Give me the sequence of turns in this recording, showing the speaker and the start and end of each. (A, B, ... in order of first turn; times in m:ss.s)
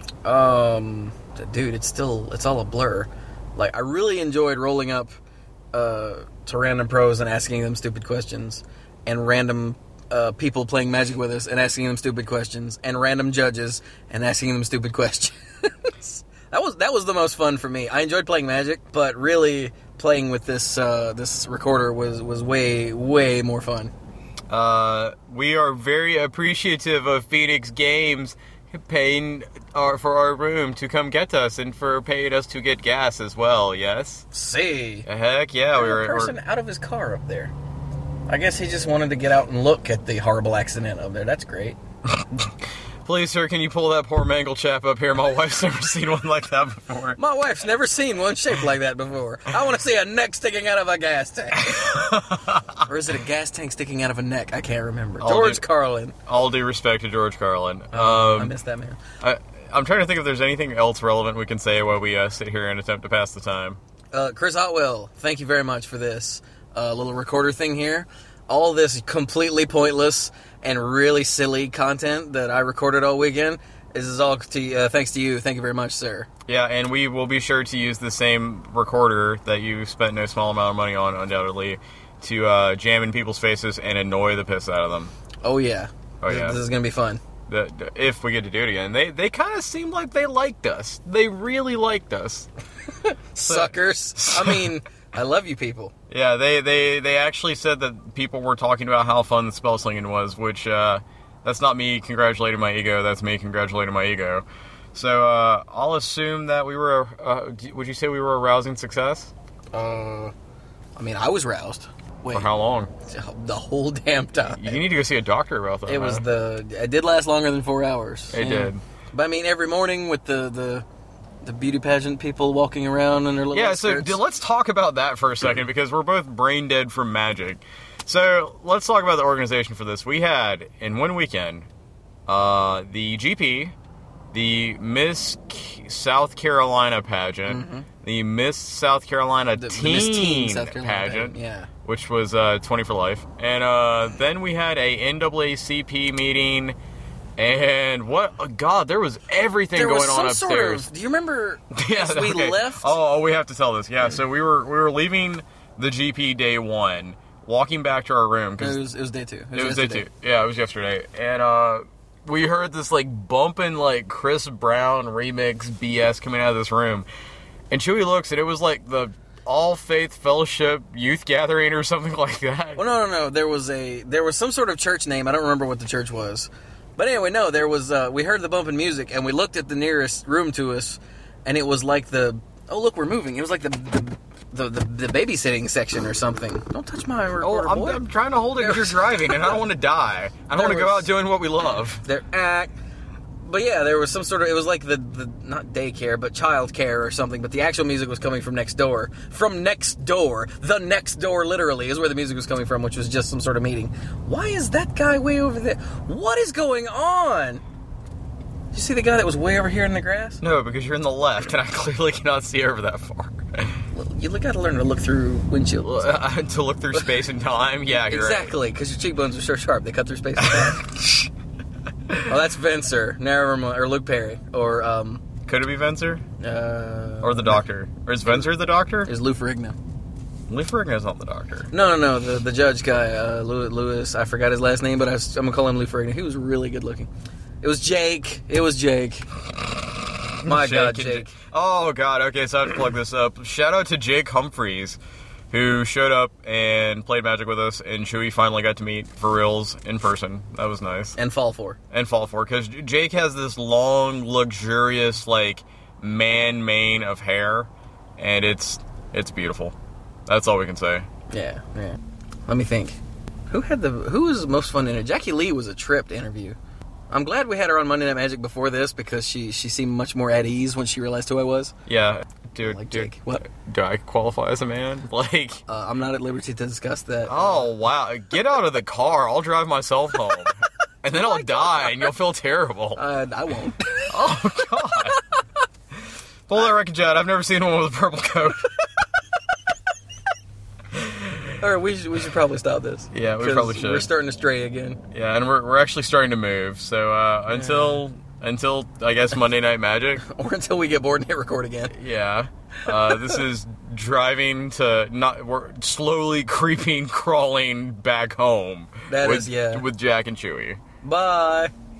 0:00.2-0:05.1 A
0:05.7-0:15.3 A
0:16.0-0:23.9 A
0:24.5-0:34.2 B
0:34.3-0:35.1 A
0:35.0-0:36.4 B
0:35.7-0:37.5 A
0:38.3-0:41.8 A
0:43.0-0:47.2 B
0:47.2-0:51.7 A
0:51.6-0:52.6 B
0:52.9-0:56.1 A
0:55.2-0:55.6 B
0:56.2-0:58.6 B
0:57.9-0:59.0 A
0:59.2-1:03.8 B
1:04.1-1:16.3 A
1:16.5-1:25.1 B
1:25.4-1:27.2 A
1:26.2-1:26.6 B
1:27.5-1:32.5 B
1:33.3-1:35.9 A
1:33.4-1:34.7 B
1:36.1-1:49.3 B
1:49.7-1:50.3 A
1:51.0-1:52.5 A
1:52.3-1:52.9 B
1:53.0-1:54.8 A
1:54.5-1:56.2 B
1:55.8-2:00.8 A
1:58.3-1:58.8 B
2:01.4-2:04.2 A
2:03.5-2:11.7 B
2:12.3-2:13.7 B
2:14.3-2:26.8 B
2:17.4-2:17.8 A
2:19.5-2:21.7 A
2:27.4-2:30.9 B
2:29.7-2:33.0 A
2:31.7-2:38.8 B
2:38.6-2:40.1 A
2:39.5-2:47.1 B
2:47.7-2:52.8 B
2:52.8-3:08.0 A
3:07.4-3:12.0 B
3:08.6-3:09.6 A
3:10.5-3:11.1 A
3:12.0-3:12.7 A
3:13.4-3:27.6 A
3:28.7-3:30.4 A
3:30.4-3:33.5 B
3:33.9-3:36.2 A
3:35.8-3:38.5 B
3:37.9-3:40.8 A
3:40.5-3:40.8 B
3:42.3-3:45.2 A
3:45.4-3:46.2 B
3:46.4-3:47.6 A
3:47.2-3:49.1 B
3:49.0-3:49.7 A
3:50.5-3:51.7 B
3:51.7-3:57.1 A
3:57.6-3:59.2 A
4:00.4-4:05.0 B
4:00.4-4:01.3 A
4:05.5-4:11.2 B
4:11.2-4:11.8 A
4:11.9-4:19.7 B
4:20.3-4:21.1 B
4:21.3-4:22.0 A
4:22.5-4:23.0 A
4:23.5-4:26.6 A
4:27.1-4:31.7 A
4:31.9-4:35.6 B
4:32.6-4:33.4 A
4:35.7-4:37.7 A
4:37.3-4:43.0 B
4:43.0-4:44.1 A
4:44.1-4:45.2 B
4:46.5-4:48.6 B
4:50.9-4:51.4 B
4:51.6-4:55.0 A
4:53.1-4:54.1 B
4:55.1-5:00.2 B
4:57.5-4:58.1 A
5:00.2-5:02.0 A
5:01.9-5:10.8 B
5:09.1-5:09.8 A
5:11.0-5:11.7 A